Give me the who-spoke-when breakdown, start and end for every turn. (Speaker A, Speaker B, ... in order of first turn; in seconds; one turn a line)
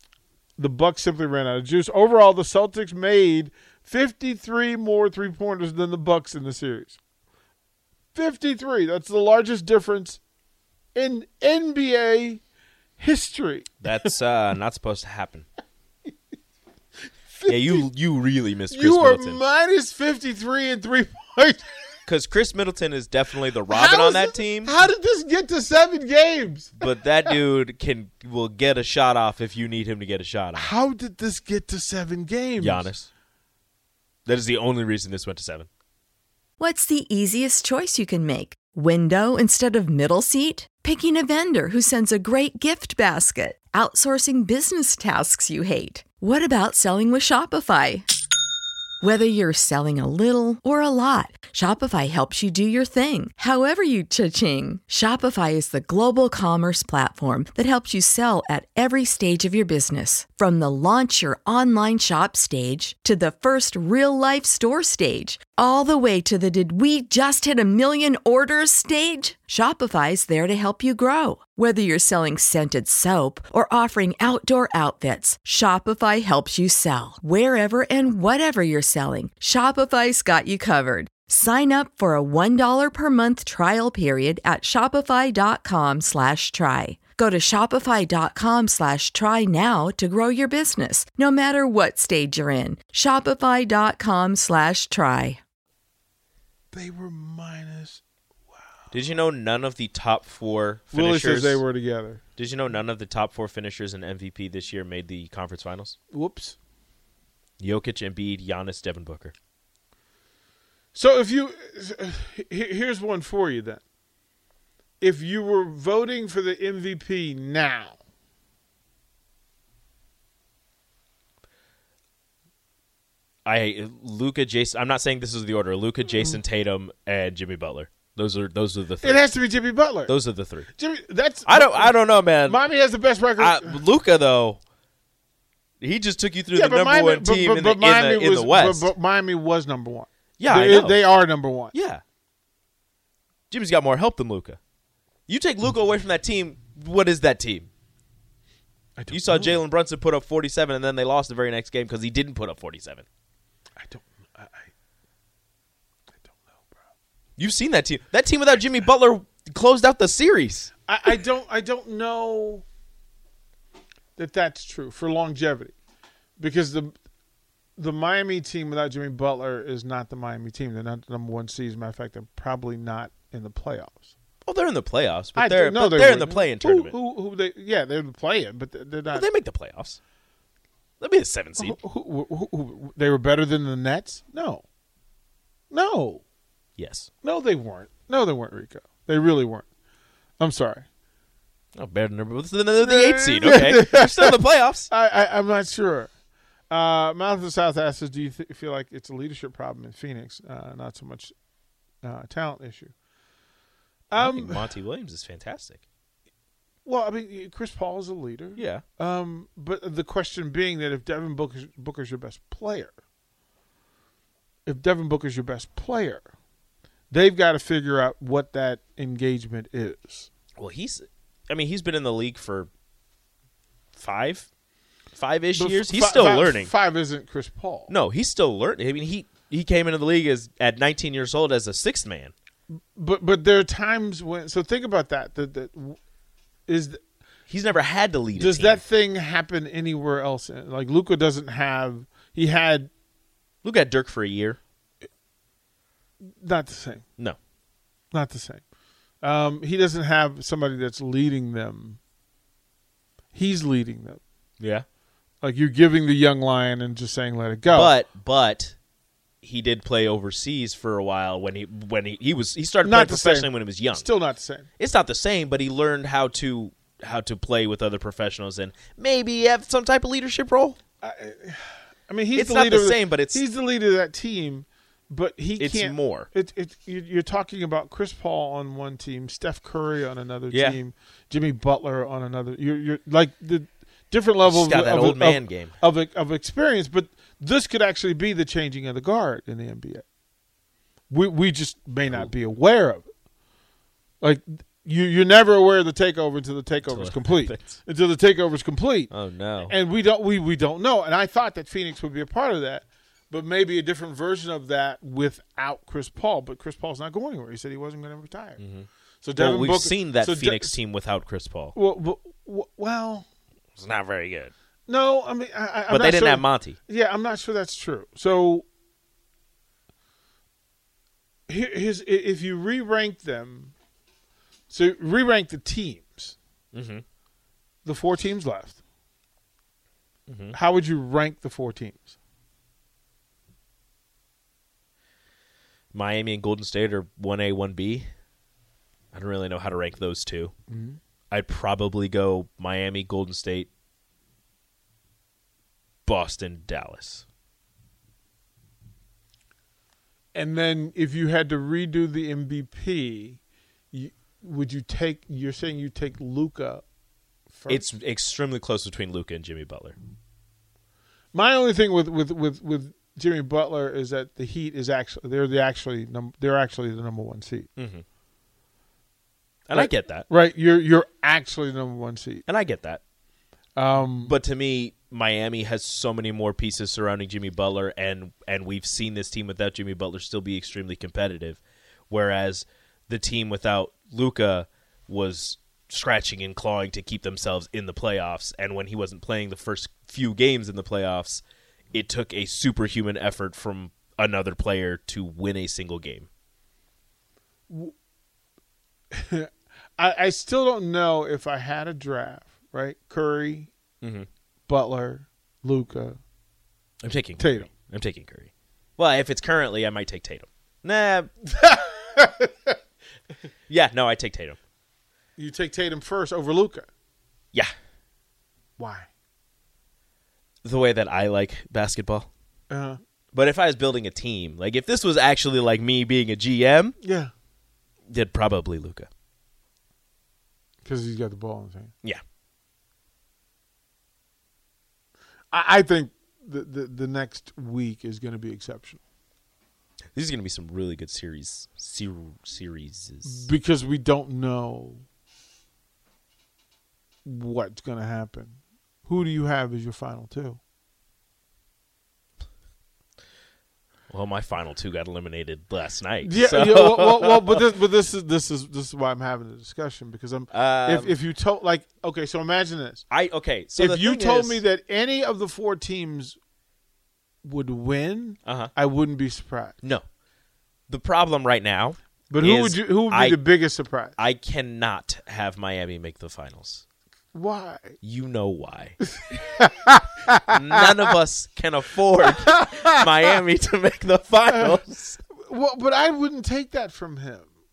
Speaker A: 0.6-7.0
Speaker A: 8.1-10.2
Speaker A: 10.9-12.4
Speaker A: 13.0-14.2
Speaker B: 13.8-15.5
Speaker A: 17.3-17.9
Speaker B: 17.5-19.4
Speaker A: 18.7-21.9
Speaker B: 22.1-24.7
Speaker A: 23.7-27.4
Speaker B: 26.8-30.7
Speaker A: 30.5-32.9
Speaker B: 32.6-33.1
Speaker B: 34.2-35.7
Speaker C: 36.6-48.0
Speaker C: 49.0-95.4
Speaker A: 96.7-98.9
Speaker B: 98.9-101.6
Speaker A: 100.9-102.2
Speaker B: 102.4-106.0
Speaker A: 106.1-106.6
Speaker B: 107.6-109.3
Speaker A: 110.9-113.8
Speaker A: 115.0-118.0
Speaker B: 123.4-129.2
Speaker A: 129.0-130.2
Speaker B: 130.0-130.7
Speaker A: 130.7-133.8
Speaker B: 131.4-132.6
Speaker B: 133.4-134.6
Speaker B: 135.8-138.9
Speaker A: 136.5-141.7
Speaker B: 140.4-141.1
Speaker B: 141.7-142.0
Speaker B: 143.5-144.6
Speaker B: 145.3-147.7
Speaker A: 148.9-149.6
Speaker B: 149.1-153.0
Speaker A: 153.8-154.7
Speaker A: 156.1-156.8
Speaker B: 157.4-160.7
Speaker A: 160.9-162.6
Speaker A: 164.2-165.7
Speaker A: 166.4-166.9
Speaker A: 167.8-174.1
Speaker B: 174.4-176.9
Speaker A: 175.3-179.3
Speaker B: 179.1-180.0
Speaker B: 181.0-181.8
Speaker A: 181.6-184.6
Speaker A: 185.7-186.2
Speaker B: 186.8-187.1
Speaker A: 187.2-189.7
Speaker A: 190.4-190.9
Speaker B: 191.7-194.9
Speaker A: 192.8-196.1
Speaker A: 196.7-201.3
Speaker A: 202.0-202.9
Speaker A: 204.1-204.8
Speaker B: 204.1-205.8
Speaker A: 206.8-212.9
Speaker B: 208.6-208.8
Speaker A: 214.7-216.3
Speaker A: 217.1-220.3
Speaker B: 220.6-222.7
Speaker B: 223.9-224.5
Speaker B: 225.1-226.7
Speaker A: 225.5-227.9
Speaker B: 227.9-232.3
Speaker A: 232.7-236.0
Speaker A: 236.7-237.0
Speaker B: 237.5-238.8
Speaker A: 238.3-242.9
Speaker B: 243.6-244.6
Speaker A: 246.2-247.0
Speaker A: 248.1-248.6
Speaker A: 249.2-252.0
Speaker A: 253.3-254.2
Speaker B: 254.6-254.8
Speaker A: 255.4-258.0
Speaker B: 257.7-258.8
Speaker B: 259.4-264.0
Speaker A: 262.8-264.7
Speaker B: 264.8-270.8
Speaker A: 271.0-290.0
Speaker B: 272.3-273.4
Speaker B: 275.6-276.3
Speaker B: 280.5-280.8
Speaker B: 284.4-285.7
Speaker A: 291.1-293.1
Speaker A: 294.2-299.1
Speaker B: 296.8-297.8
Speaker B: 299.1-299.7
Speaker A: 299.6-308.6
Speaker B: 308.6-311.8
Speaker A: 309.2-310.8
Speaker A: 311.7-313.2
Speaker B: 313.8-314.5
Speaker A: 314.9-318.6
Speaker B: 315.9-316.8
Speaker A: 321.5-323.7
Speaker A: 324.7-326.4
Speaker B: 326.7-327.0
Speaker A: 327.8-328.8
Speaker B: 330.3-330.6
Speaker A: 330.5-332.1
Speaker B: 335.9-338.1
Speaker B: 339.1-340.5
Speaker A: 340.7-341.0
Speaker B: 341.3-343.7
Speaker B: 346.1-347.2
Speaker A: 350.3-353.4
Speaker A: 353.9-356.8
Speaker A: 357.5-357.8
Speaker B: 357.7-359.9
Speaker A: 361.3-367.7
Speaker B: 367.8-368.0
Speaker B: 369.7-370.3
Speaker A: 369.7-372.4
Speaker B: 372.5-373.0
Speaker A: 373.8-374.4
Speaker B: 373.9-391.4
Speaker B: 391.9-396.3
Speaker A: 397.7-397.9
Speaker A: 399.1-403.7
Speaker B: 404.0-404.3
Speaker A: 404.7-406.2
Speaker B: 407.0-411.3
Speaker A: 407.4-407.7
Speaker A: 411.4-412.8
Speaker B: 413.7-414.6
Speaker A: 415.4-416.9
Speaker A: 418.8-419.1
Speaker B: 420.6-422.3
Speaker A: 422.7-423.0
Speaker B: 423.3-426.9
Speaker A: 427.0-427.3
Speaker B: 428.1-429.1
Speaker A: 430.8-431.9
Speaker A: 435.5-439.0
Speaker B: 440.1-443.5
Speaker A: 443.2-445.0
Speaker A: 447.2-450.6
Speaker B: 454.1-457.6
Speaker A: 456.2-463.0
Speaker B: 460.5-461.1
Speaker B: 463.1-464.6
Speaker A: 463.7-466.4
Speaker A: 467.4-469.8
Speaker B: 468.4-468.7
Speaker B: 470.9-473.4
Speaker A: 472.3-474.2
Speaker B: 474.2-476.8
Speaker A: 477.3-478.0
Speaker B: 478.0-479.0
Speaker A: 479.1-481.1
Speaker B: 480.5-485.2
Speaker A: 482.2-483.4
Speaker A: 484.4-487.5